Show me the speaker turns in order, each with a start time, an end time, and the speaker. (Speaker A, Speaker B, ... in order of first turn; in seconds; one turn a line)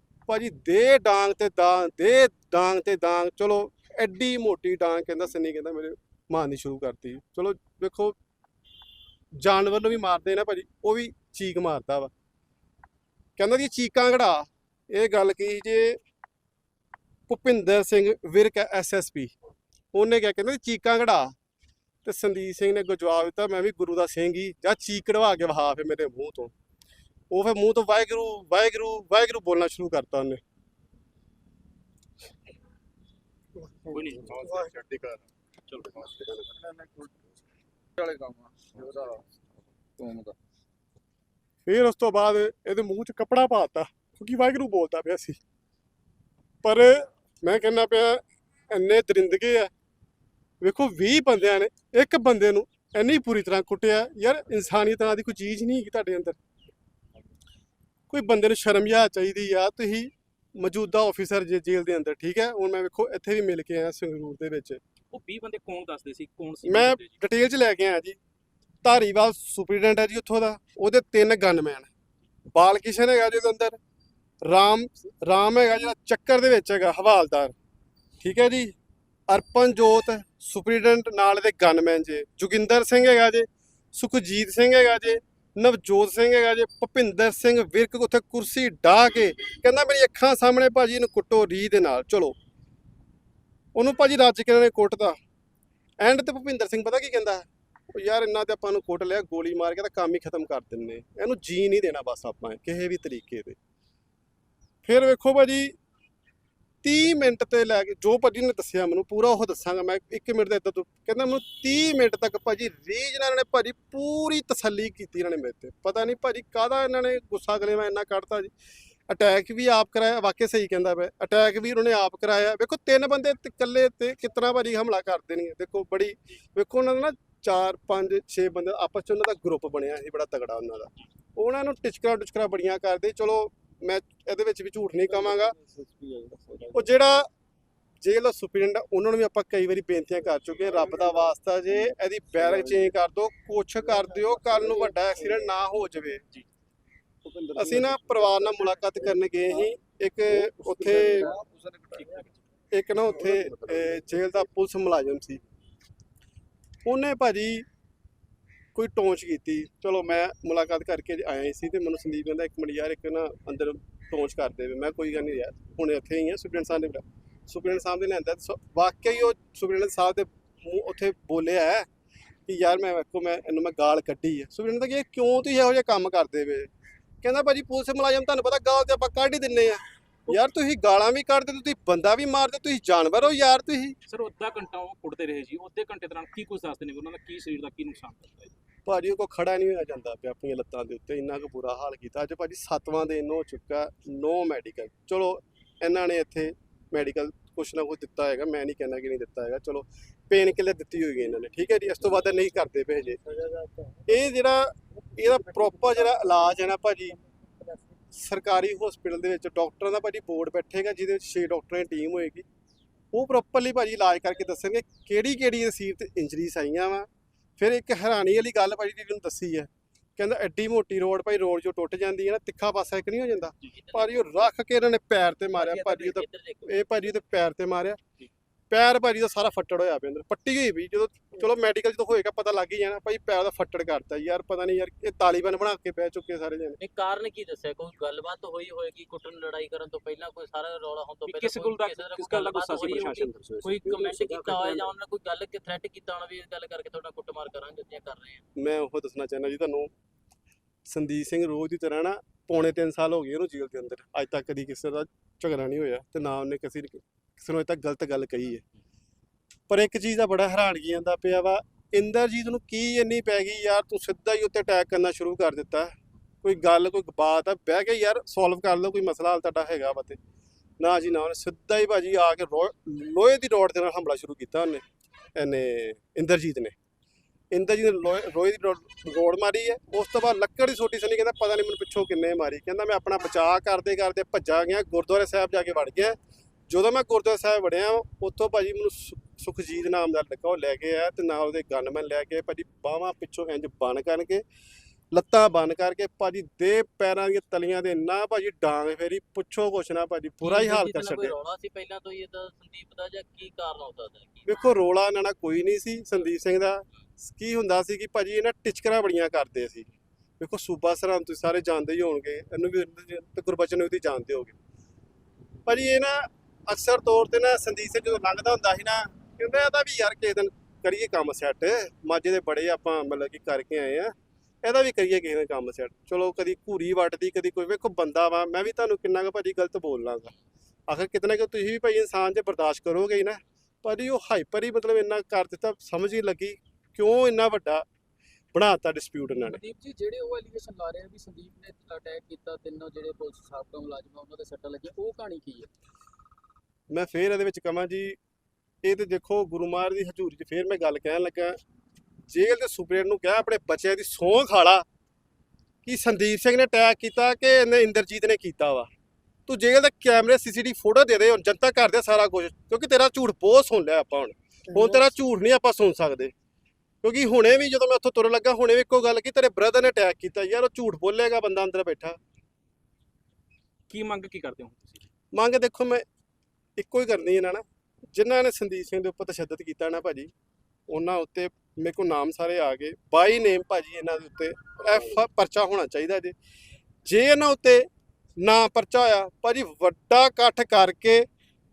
Speaker A: 0.3-8.2
Speaker A: 9.3-12.1
Speaker A: 13.4-16.0
Speaker A: 17.3-19.3
Speaker A: 19.9-21.3
Speaker A: 22.0-26.5
Speaker A: 27.3-30.4
Speaker B: 33.9-34.6
Speaker C: 34.3-34.8
Speaker B: 35.7-36.1
Speaker C: 36.3-37.1
Speaker C: 38.0-39.3
Speaker C: 40.0-40.3
Speaker A: 41.6-45.4
Speaker A: 46.6-49.7
Speaker A: 50.6-56.4
Speaker A: 58.1-64.8
Speaker B: 65.1-67.2
Speaker A: 66.6-68.2
Speaker A: 68.8-71.9
Speaker A: 72.5-73.8
Speaker A: 74.4-77.5
Speaker A: 78.2-78.7
Speaker A: 79.3-92.3
Speaker A: 93.7-95.2
Speaker A: 96.0-103.6
Speaker A: 104.8-105.7
Speaker A: 106.8-118.5
Speaker A: 119.1-135.6
Speaker C: 135.1-136.9
Speaker A: 136.7-137.3
Speaker A: 138.0-146.2
Speaker C: 140.4-142.9
Speaker C: 143.8-145.6
Speaker C: 147.2-149.7
Speaker A: 147.6-151.3
Speaker C: 150.3-152.2
Speaker B: 151.9-152.2
Speaker A: 152.7-155.4
Speaker C: 153.1-154.2
Speaker A: 156.8-157.7
Speaker A: 158.7-171.9
Speaker A: 172.5-176.7
Speaker A: 177.2-183.9
Speaker B: 184.1-188.5
Speaker A: 188.8-203.2
Speaker D: 203.3-203.9
Speaker A: 204.1-207.2
Speaker A: 208.1-212.4
Speaker A: 213.1-217.1
Speaker A: 217.6-228.0
Speaker E: 223.7-224.4
Speaker E: 225.5-227.1
Speaker A: 228.7-236.8
Speaker E: 236.8-248.4
Speaker B: 241.2-243.5
Speaker C: 243.6-244.8
Speaker A: 248.6-249.9
Speaker A: 250.8-258.6
Speaker A: 259.7-270.2
Speaker A: 270.8-274.8
Speaker A: 275.4-276.7
Speaker A: 277.5-286.2
Speaker A: 286.7-294.4
Speaker A: 295.1-301.4
Speaker E: 300.4-304.5
Speaker A: 304.4-309.9
Speaker A: 310.4-314.6
Speaker A: 315.6-330.3
Speaker A: 330.9-337.8
Speaker A: 338.5-339.6
Speaker D: 339.4-345.7
Speaker A: 346.9-348.2
Speaker A: 348.8-351.6
Speaker A: 352.3-354.8
Speaker A: 355.8-358.9
Speaker A: 359.5-366.3
Speaker A: 367.0-372.2
Speaker B: 373.9-375.1
Speaker A: 375.3-376.0
Speaker A: 376.8-380.3
Speaker A: 380.9-386.3
Speaker A: 387.0-387.9
Speaker A: 388.4-391.3